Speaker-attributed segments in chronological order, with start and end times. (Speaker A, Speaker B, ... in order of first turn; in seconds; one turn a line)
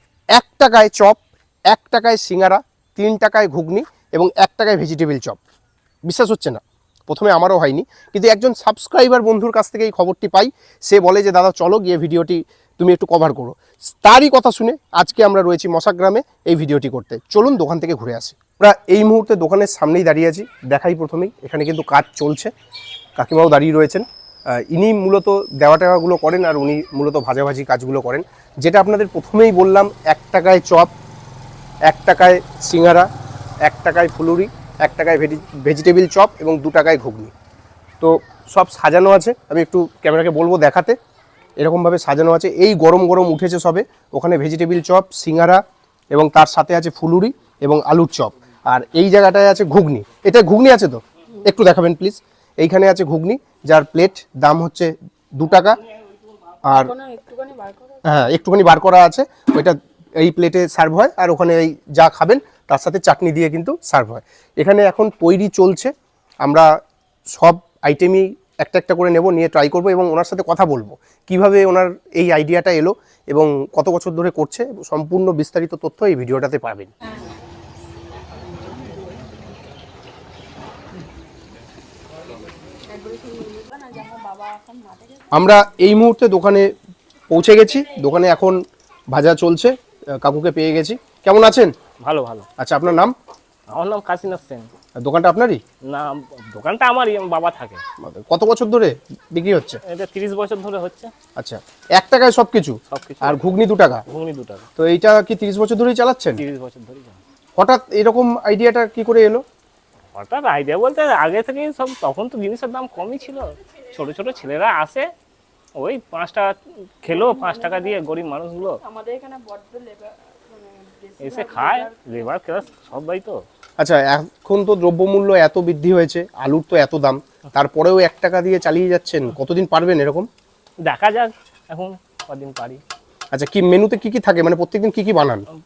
Speaker A: 0.3-5.4
Speaker A: 6.0-22.5
Speaker A: 23.2-30.9
Speaker A: 31.9-33.1
Speaker A: 33.6-37.3
Speaker A: 38.0-41.0
Speaker A: 41.6-55.8
Speaker A: 56.7-56.9
Speaker B: 56.7-58.0
Speaker A: 58.0-65.9
Speaker A: 66.4-66.7
Speaker A: 67.3-76.9
Speaker B: 82.9-84.8
Speaker A: 85.3-86.7
Speaker A: 87.3-91.8
Speaker C: 92.0-92.5
Speaker A: 92.6-93.1
Speaker C: 93.7-94.7
Speaker A: 95.0-95.6
Speaker C: 95.9-97.8
Speaker A: 98.0-99.8
Speaker C: 99.9-101.1
Speaker A: 101.4-104.0
Speaker C: 102.9-103.5
Speaker C: 104.1-104.7
Speaker A: 104.8-106.4
Speaker C: 106.4-107.2
Speaker A: 107.6-109.4
Speaker C: 110.1-115.1
Speaker C: 115.8-118.8
Speaker B: 117.1-118.1
Speaker B: 118.8-122.1
Speaker C: 121.2-123.3
Speaker A: 123.8-130.3
Speaker C: 130.9-132.8
Speaker A: 133.3-135.5